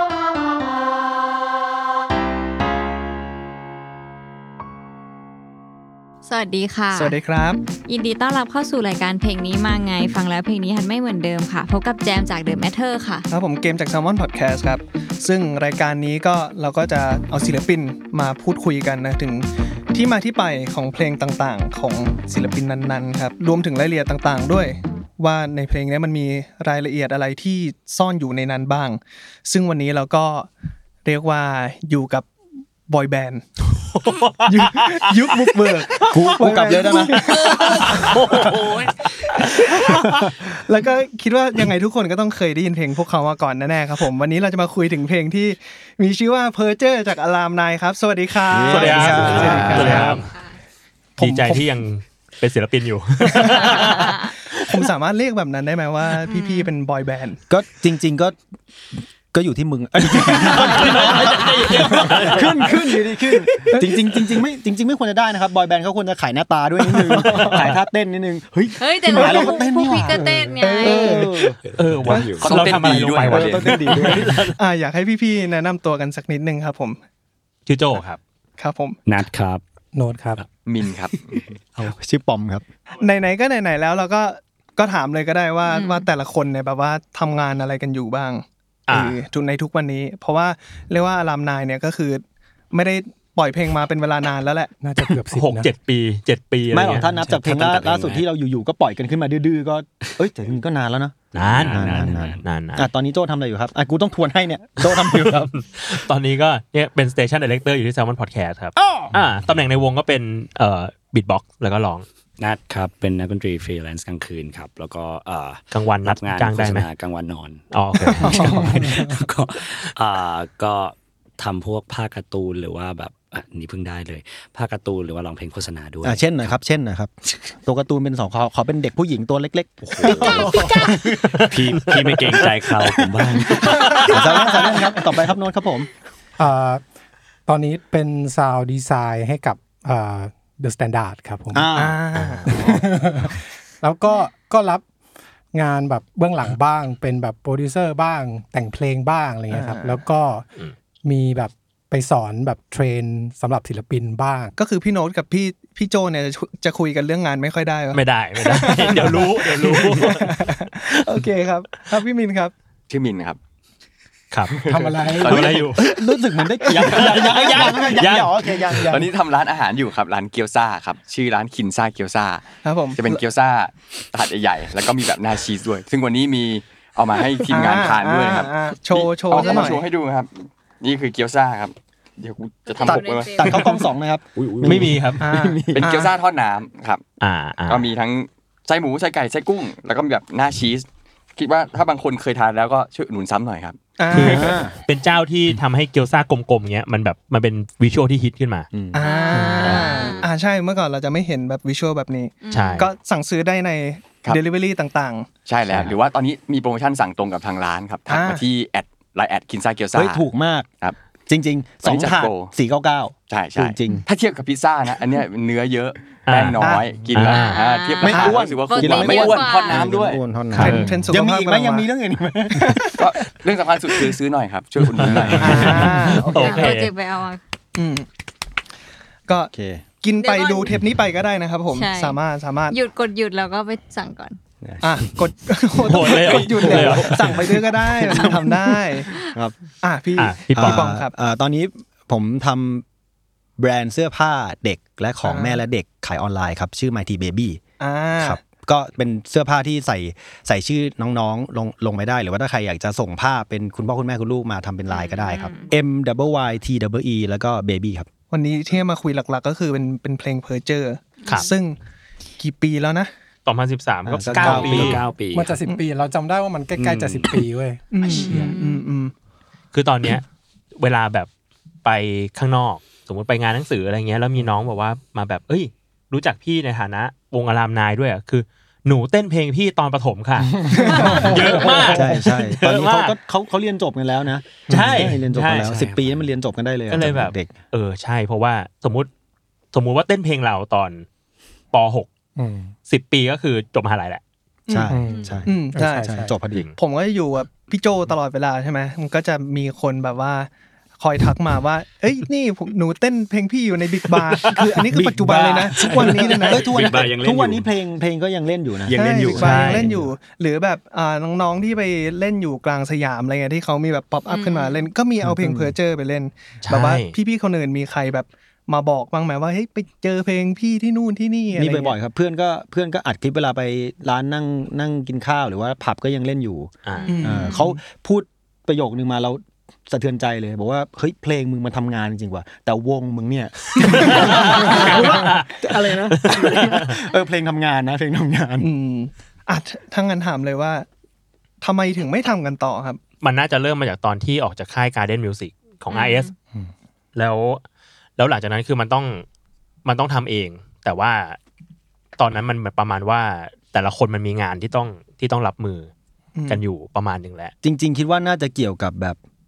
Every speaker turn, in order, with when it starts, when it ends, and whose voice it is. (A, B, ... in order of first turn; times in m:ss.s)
0:06.2-0:07.2 A
0:06.9-0:07.6 B
0:07.7-0:13.3 A
0:13.3-0:30.5 B
0:31.0-0:32.3 B
0:32.9-0:33.4 B
0:34.0-0:34.9 C
0:34.5-0:38.5 B
0:36.1-0:38.4 D
0:36.8-0:40.2 C
0:39.7-0:39.9 B
0:40.5-0:50.2 B
0:48.5-0:50.1 D
0:48.7-0:50.2 C
0:49.1-0:50.1 E
0:50.1-0:50.5 A
0:51.2-0:51.6 F
0:51.2-0:54.2 C
0:53.2-0:57.4 B
0:54.0-0:54.3 A
0:56.2-0:56.7 A
0:57.5-0:58.4 D
0:59.3-1:11.6 D
1:00.4-1:01.8 A
1:00.7-1:02.7 C
1:03.7-1:04.4 B
1:07.0-1:07.5 B
1:08.8-1:11.3 A
1:09.1-1:09.6 B
1:10.2-1:10.6 F
1:10.6-1:11.3 B
1:11.6-1:12.5 E
1:11.8-1:14.6 C
1:12.1-1:12.4 B
1:12.4-1:13.9 G
1:12.6-1:14.4 D
1:14.6-1:17.0 B
1:17.7-1:18.2 C
1:18.6-1:19.0 B
1:19.0-1:19.6 E
1:19.9-1:20.4 F
1:20.6-1:21.3 G
1:21.8-1:22.6 D
1:22.9-1:34.7 B
1:25.7-1:26.1 A
1:28.9-1:29.2 C
1:34.8-1:35.7 F
1:35.3-1:37.1 C
1:36.7-1:45.5 D
1:36.8-1:38.2 E
1:41.3-1:42.8 C
1:41.4-1:42.4 E
1:44.8-1:52.0 C
1:52.4-2:06.5 E
1:55.7-1:56.9 C
1:57.7-1:59.1 C
1:58.6-1:59.1 F
2:06.0-2:11.4 D
2:09.8-2:10.5 E
2:10.1-2:11.0 A
2:11.4-2:12.5 C
2:11.5-2:14.1 E
2:13.5-2:14.7 C
2:14.1-2:15.9 D
2:16.4-2:16.8 F
2:17.5-2:21.7 F
2:21.5-2:22.0 D
2:21.7-2:22.7 B
2:22.1-2:22.5 C
2:22.5-2:24.8 F
2:25.5-2:30.4 F
2:29.5-2:30.0 B
2:31.0-2:34.5 F
2:34.6-2:42.5 B
2:37.9-2:40.4 C
2:42.9-2:43.4 G
2:44.3-2:45.8 C
2:44.5-2:45.7 G
2:44.6-2:45.5 F
2:45.7-2:49.1 D
2:46.8-2:48.9 C
2:46.8-2:47.2 G
2:48.9-3:03.3 G
2:52.6-2:53.2 B
2:57.5-2:59.8 B
2:59.3-2:59.8 A
3:02.7-3:03.8 A
3:02.8-3:05.9 D
3:04.4-3:05.0 E
3:04.6-3:05.2 C
3:05.2-3:06.1 B
3:05.8-3:07.0 G
3:07.2-3:07.9 C
3:07.7-3:13.8 G
3:14.0-3:14.6 B
3:14.1-3:18.7 C
3:14.1-3:14.7 D
3:18.7-3:19.5 D
3:18.9-3:25.3 B
3:19.0-3:20.3 A
3:19.6-3:20.0 C
3:22.4-3:22.9 A
3:22.5-3:22.9 C
3:25.4-3:30.2 G
3:25.7-3:25.9 D
3:28.1-3:28.4 B
3:29.9-3:30.7 D
3:31.3-3:34.0 D
3:31.8-3:32.5 G
3:33.3-3:40.8 G
3:36.2-3:37.6 C
3:36.6-3:36.8 B
3:37.1-3:39.9 A
3:38.0-3:38.4 B
3:38.0-3:43.1 D
3:40.5-3:40.9 C
3:40.6-3:41.9 B
3:42.6-3:42.9 B
3:43.0-3:45.7 G
3:44.9-3:46.9 C
3:45.0-3:45.8 D
3:45.4-3:46.7 B
3:46.2-3:47.4 A
3:47.8-3:48.1 B
3:49.3-3:52.8 B
3:49.5-3:49.8 D
3:50.2-3:50.8 A
3:51.7-3:54.4 A
3:54.8-3:59.1 B
3:55.8-3:57.6 C
3:56.7-3:58.5 D
3:59.8-4:01.1 B
4:00.2-4:00.9 C
4:00.2-4:02.8 D
4:03.6-4:07.6 D
4:05.2-4:05.6 B
4:07.8-4:08.4 B
4:08.2-4:18.1 D
4:14.9-4:15.7 A
4:18.3-4:21.8 B
4:21.2-4:21.5 A
4:22.4-4:23.1 B
4:23.4-4:25.0 C
4:24.0-4:25.0 D
4:24.3-4:25.6 E
4:25.3-4:27.8 F
4:26.8-4:27.5 E
4:27.9-4:29.1 B
4:28.0-4:28.9 A
4:28.3-4:28.5 C
4:29.7-4:31.3 C
4:31.8-4:43.1 C
4:40.7-4:41.4 B
4:40.7-4:41.0 D
4:41.0-4:42.3 F
4:41.9-4:47.6 D
4:44.7-4:45.7 C
4:45.5-4:46.2 E
4:46.9-4:49.1 C
4:49.7-4:51.0 C
4:51.7-4:52.1 C
4:52.4-4:52.7 F
4:52.9-4:54.2 C
4:54.7-4:54.9 B
4:54.7-4:56.7 D
4:54.9-4:56.3 F
4:55.1-4:55.4 A
4:55.5-4:56.2 B
4:56.8-5:06.8 B
5:04.4-5:04.8 C
5:04.9-5:10.1 D
5:05.2-5:07.7 E
5:08.8-5:09.9 E
5:08.9-5:22.0 B
5:09.4-5:09.9 C
5:14.3-5:14.9 A
5:15.2-5:15.7 D
5:16.6-5:17.2 C
5:21.5-5:26.7 D
5:26.8-5:27.2 C
5:26.9-5:27.8 A
5:27.1-5:27.7 B
5:27.2-5:38.7 D
5:33.9-5:37.0 C
5:38.6-5:40.9 B
5:41.6-5:43.0 B
5:43.2-5:46.3 C
5:45.9-5:46.3 A
5:47.1-5:47.6 C
5:48.2-5:49.2 C
5:49.8-5:51.4 C
5:52.2-5:55.9 C
5:56.4-5:56.6 B
5:56.5-5:57.5 C
5:57.6-5:59.2 D